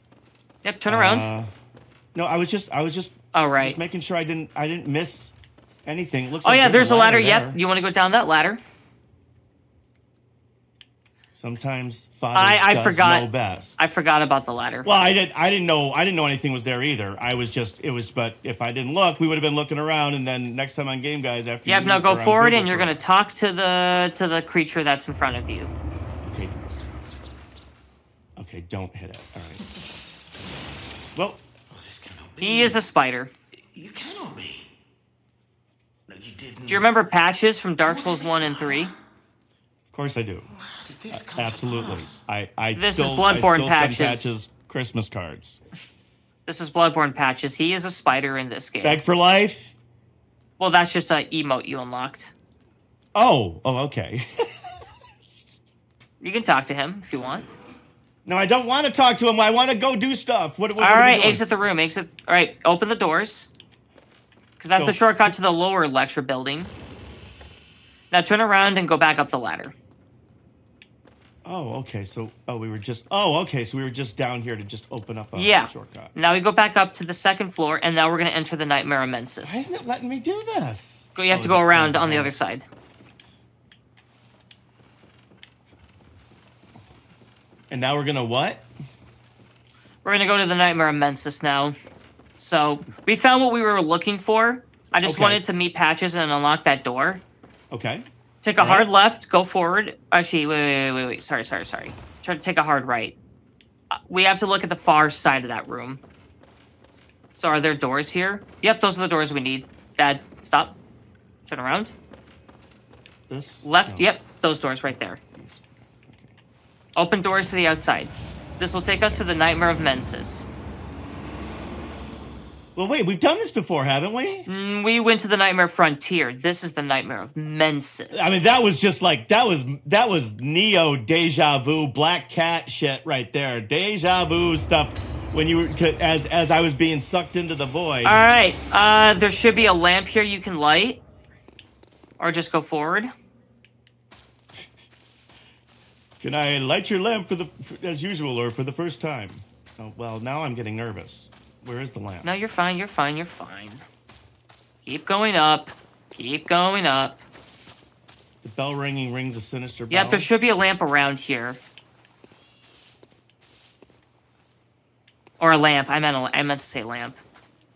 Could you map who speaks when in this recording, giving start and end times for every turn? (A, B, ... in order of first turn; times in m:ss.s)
0:00.6-0:01.3 A
0:00.9-0:01.5 B
0:02.1-0:07.6 B
0:03.3-0:03.8 A
0:06.4-0:08.6 A
0:11.3-0:13.8 B
0:12.4-0:14.9 A
0:14.8-0:23.0 B
0:21.7-0:25.7 A
0:26.2-0:26.8 B
0:28.4-0:29.6 B
0:31.2-0:31.4 B
0:31.7-0:32.8 C
0:32.4-0:33.3 A
0:33.7-0:34.7 C
0:36.1-0:37.0 C
0:36.7-0:38.9 A
0:37.8-0:38.9 C
0:39.9-0:40.5 B
0:40.5-0:42.2 C
0:41.1-0:45.6 B
0:42.7-0:44.3 A
0:46.5-0:49.0 A
0:48.8-0:49.8 B
0:50.6-0:52.3 A
0:53.2-0:55.5 B
0:56.2-0:57.5 A
0:58.2-1:01.5 B
1:00.8-1:03.5 A
1:04.6-1:06.7 A
1:04.7-1:05.4 B
1:08.1-1:09.8 A
1:11.4-1:16.2 B
1:15.4-1:19.7 A
1:19.4-1:22.4 B
1:21.2-1:22.7 A
1:27.7-1:28.7 B
1:30.0-1:31.8 A
1:32.4-1:37.2 A
1:35.0-1:35.4 B
1:37.7-1:38.0 B
1:38.4-1:43.2 A
1:38.6-1:39.1 B
1:43.9-1:46.0 A
1:47.4-1:50.8 A
1:51.5-1:51.9 A
1:53.3-1:54.1 B
1:53.6-1:55.2 A
1:54.9-1:56.4 B
1:57.0-2:00.5 A
2:02.8-2:04.5 B
2:04.5-2:08.4 A
2:08.1-2:18.2 B
2:18.0-2:21.0 A
2:22.2-2:23.1 A
2:26.2-2:32.3 B
2:32.2-2:33.8 A
2:34.8-2:37.2 A
2:38.4-2:40.3 B
2:39.9-2:41.6 A
2:45.4-2:47.2 A